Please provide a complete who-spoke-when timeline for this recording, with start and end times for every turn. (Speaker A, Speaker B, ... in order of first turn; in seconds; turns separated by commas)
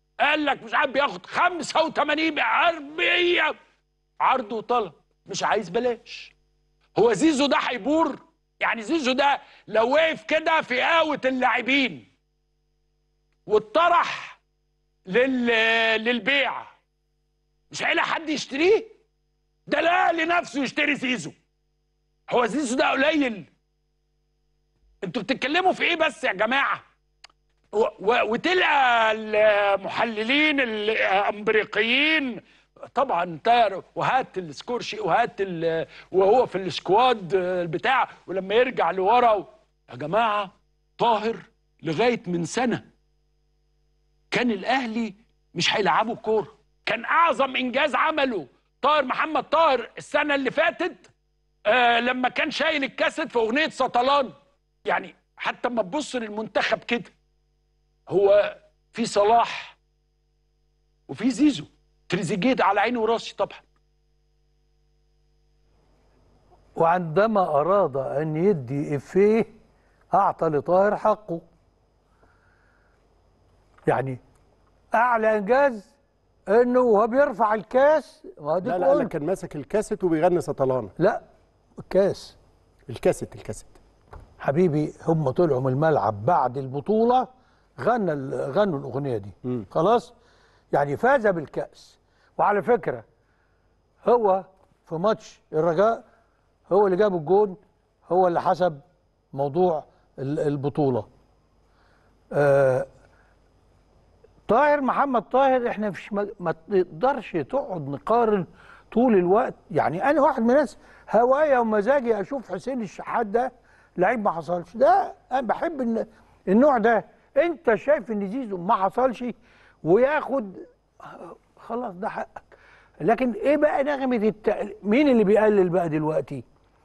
Speaker A: 0.2-3.5, Speaker A: 4.2-6.3, Speaker A: 7.0-12.1, Speaker A: 13.5-14.4, Speaker A: 15.1-16.7, Speaker A: 17.7-18.9, Speaker A: 19.7-21.3, Speaker A: 22.3-23.5, Speaker A: 25.0-26.8, Speaker A: 27.7-32.4, Speaker A: 32.9-42.8, Speaker A: 44.3-51.1, Speaker A: 51.7-54.3, Speaker A: 54.9-57.1, Speaker A: 58.1-59.8, Speaker A: 61.1-63.6, Speaker B: 66.8-69.5, Speaker B: 70.1-71.4, Speaker B: 73.9-74.2, Speaker B: 74.9-75.9, Speaker B: 76.5-79.1, Speaker C: 78.6-80.9, Speaker B: 81.0-81.2, Speaker B: 81.8-82.3, Speaker C: 82.9-83.8, Speaker B: 84.4-90.1, Speaker B: 90.7-93.0, Speaker B: 94.0-96.0, Speaker B: 96.7-98.8, Speaker B: 99.3-101.1, Speaker B: 102.3-102.9, Speaker B: 104.5-122.4, Speaker B: 123.0-126.4